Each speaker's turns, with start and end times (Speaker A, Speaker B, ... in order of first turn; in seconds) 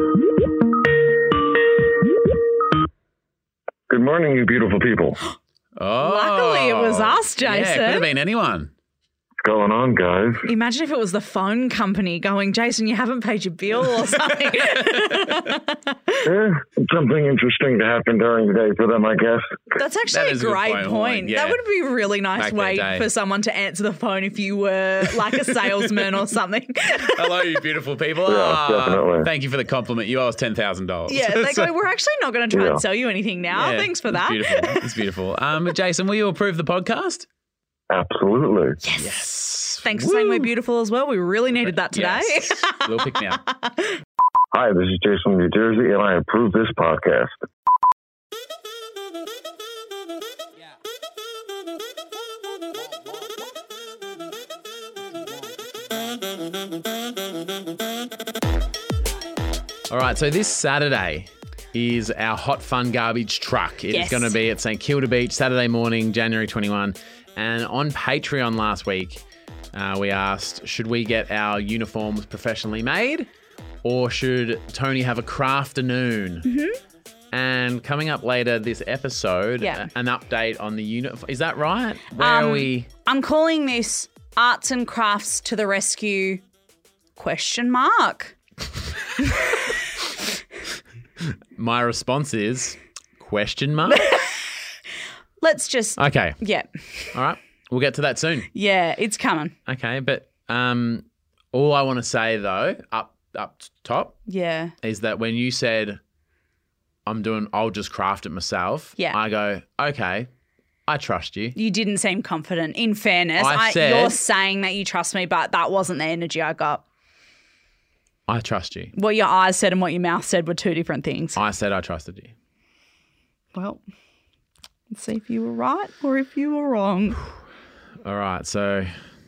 Speaker A: 3.9-5.2, 9.4-10.4, 16.2-19.7, 28.3-29.3, 32.5-32.8, 37.9-38.8, 44.5-47.4
Speaker B: 5.8-8.7, 14.1-15.4, 20.1-21.6, 22.4-23.1, 25.3-26.1, 27.0-31.7, 33.5-37.3, 39.0-40.5, 41.7-43.4, 59.9-69.2, 69.7-73.3, 73.8-76.5, 77.3-82.9, 91.2-94.1, 96.0-96.4, 97.1-98.5, 99.7-104.2, 104.8-106.0, 107.1-110.3, 110.9-111.6, 113.4-114.2, 118.3-118.9, 121.3-122.3, 128.0-128.9
Speaker C: 6.0-8.1, 10.4-16.3, 19.8-27.4, 31.1-34.9, 38.8-39.3, 39.8-44.0, 63.9-64.3, 76.5-76.8, 79.6-79.9, 82.2-86.4, 87.2-88.3, 89.2-90.1, 93.9-94.5, 95.4-97.2, 98.5-99.5, 104.3-104.7, 111.5-116.8, 118.9-121.4, 123.5-123.8, 124.9-127.2